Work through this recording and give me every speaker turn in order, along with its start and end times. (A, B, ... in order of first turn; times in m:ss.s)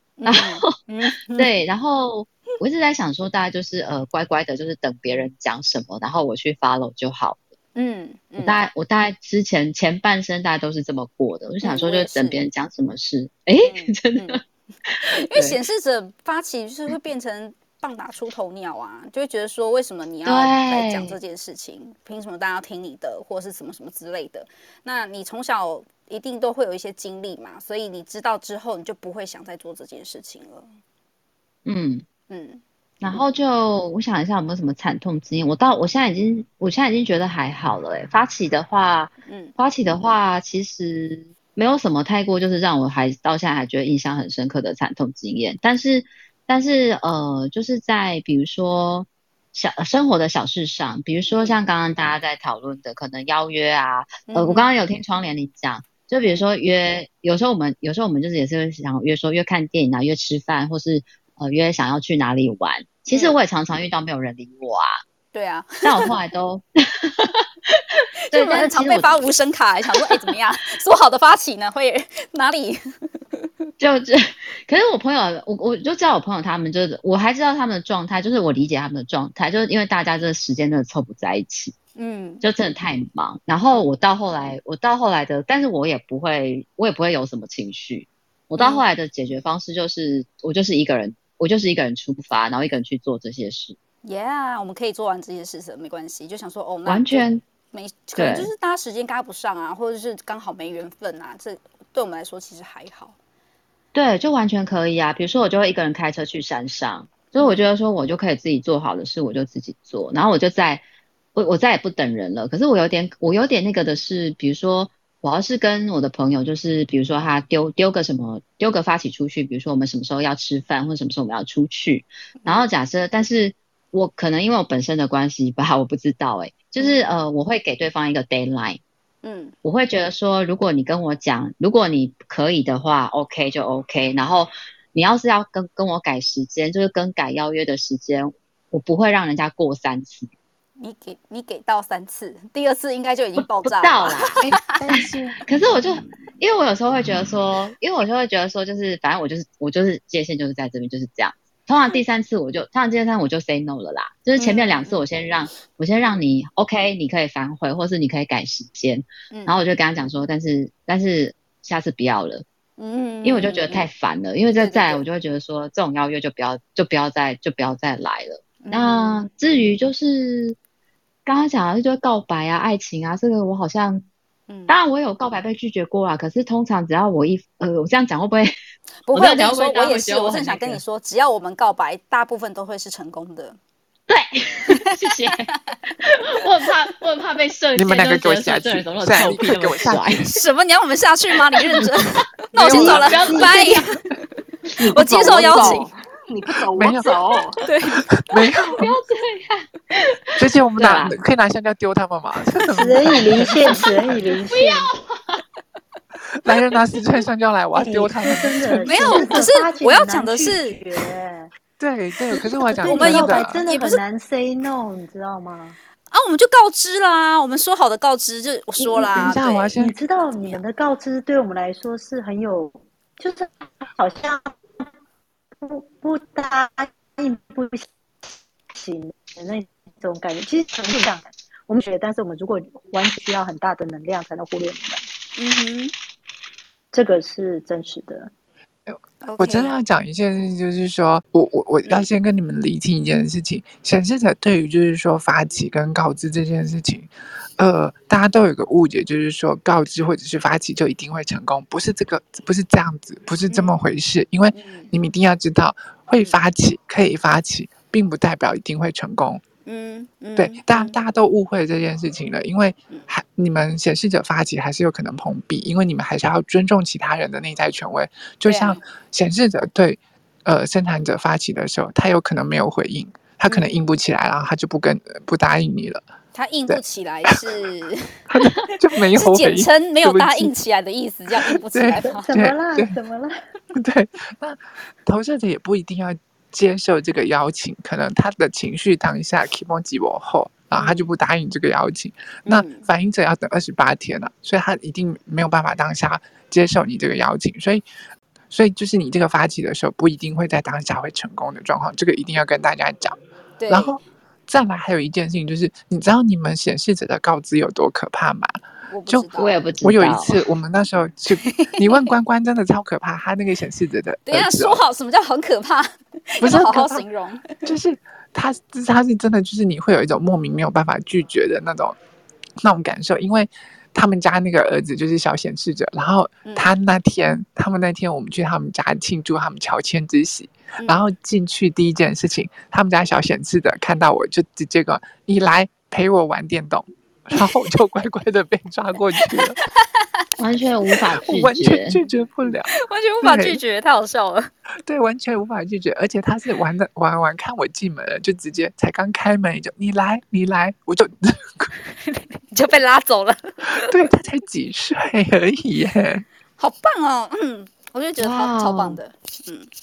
0:00.2-0:01.5 A
0:00.2-0:07.5 B
0:07.8-0:08.6 A
0:08.4-0:15.6 B
0:11.6-0:12.4 A
0:13.6-0:14.4 A
0:15.1-0:30.7 A
0:20.2-0:21.2 B
0:31.7-0:32.1 B
0:32.3-0:32.6 A
0:33.0-1:05.0 B
0:39.2-0:39.6 A
0:51.2-0:51.6 A
0:54.3-0:54.7 A
1:03.1-1:03.4 A
1:05.3-1:06.1 A
1:05.8-1:09.2 B
1:08.3-1:12.8 A
1:09.9-1:10.2 B
1:13.8-1:21.8 B
1:22.0-1:22.5 A
1:22.4-1:33.8 B
1:28.6-1:28.8 A
1:34.0-1:43.2 A
1:36.9-1:37.4 B
1:38.2-1:38.5 B
1:43.9-1:50.8 B
1:47.4-1:47.6 A
1:51.4-2:08.8 B
2:02.4-2:02.7 A
2:06.8-2:07.1 A
2:09.2-2:09.5 A
2:09.6-2:20.3 B
2:20.8-2:24.8 A
2:23.4-2:24.3 B
2:24.4-2:25.4 C
2:24.9-2:42.4 B
2:34.4-2:35.0 A
2:39.3-2:39.6 A
2:42.8-2:43.9 A
2:43.2-2:50.6 B
2:44.6-2:45.0 A
2:48.6-2:49.2 A
2:51.3-2:54.1 B
2:54.5-2:54.8 A
2:54.7-2:58.5 B
2:59.1-3:03.6 A
2:59.1-3:00.8 B
3:04.1-3:05.5 B
3:04.7-3:05.7 A
3:06.0-3:10.3 B
3:07.8-3:10.3 C
3:10.3-3:14.0 A
3:12.6-3:13.8 B
3:12.7-3:13.5 D
3:14.8-3:17.6 E
3:14.8-3:15.9 A
3:16.7-3:17.2 C
3:17.6-3:18.6 A
3:17.9-3:18.8 C
3:18.8-3:21.2 B
3:20.4-3:24.1 C
3:22.8-3:24.9 D
3:24.5-3:25.4 B
3:26.4-3:29.5 C
3:27.8-3:31.5 D
3:28.9-3:31.1 A
3:31.8-3:33.6 C
3:32.3-3:34.0 A
3:32.8-3:35.8 D
3:36.1-3:39.7 A
3:38.8-3:40.0 C
3:39.8-3:44.5 D
3:45.6-3:47.9 D
3:48.7-3:55.0 D
3:55.4-3:55.9 A
3:56.9-3:58.3 D
3:58.9-4:19.4 C
3:59.2-3:59.7 A
4:13.5-4:13.8 A
4:14.5-4:14.9 A
4:19.7-4:21.0 A
4:20.4-4:36.0 C
4:28.5-4:28.8 A
4:33.5-4:33.8 A
4:36.4-4:42.3 A
4:36.7-4:37.4 C
4:38.3-4:40.5 C
4:41.4-4:43.0 C
4:42.0-4:43.4 D
4:43.7-4:57.8 C
4:50.8-4:51.1 A
4:52.5-4:52.9 A
4:58.5-5:03.2 C
5:03.6-5:04.0 A
5:03.7-5:14.8 C
5:08.9-5:09.6 A
5:09.4-5:10.4 B
5:11.5-5:12.1 A
5:14.3-5:17.7 A
5:16.4-5:17.0 C
5:17.6-5:22.0 C
5:22.6-5:39.6 C
5:26.4-5:26.7 A
5:40.4-5:42.0 B
5:41.2-5:43.6 C
5:42.7-5:44.5 A
5:44.9-5:51.7 C
5:52.1-5:53.9 A
5:53.8-5:56.2 C
5:56.6-5:59.7 A
5:58.2-5:59.0 B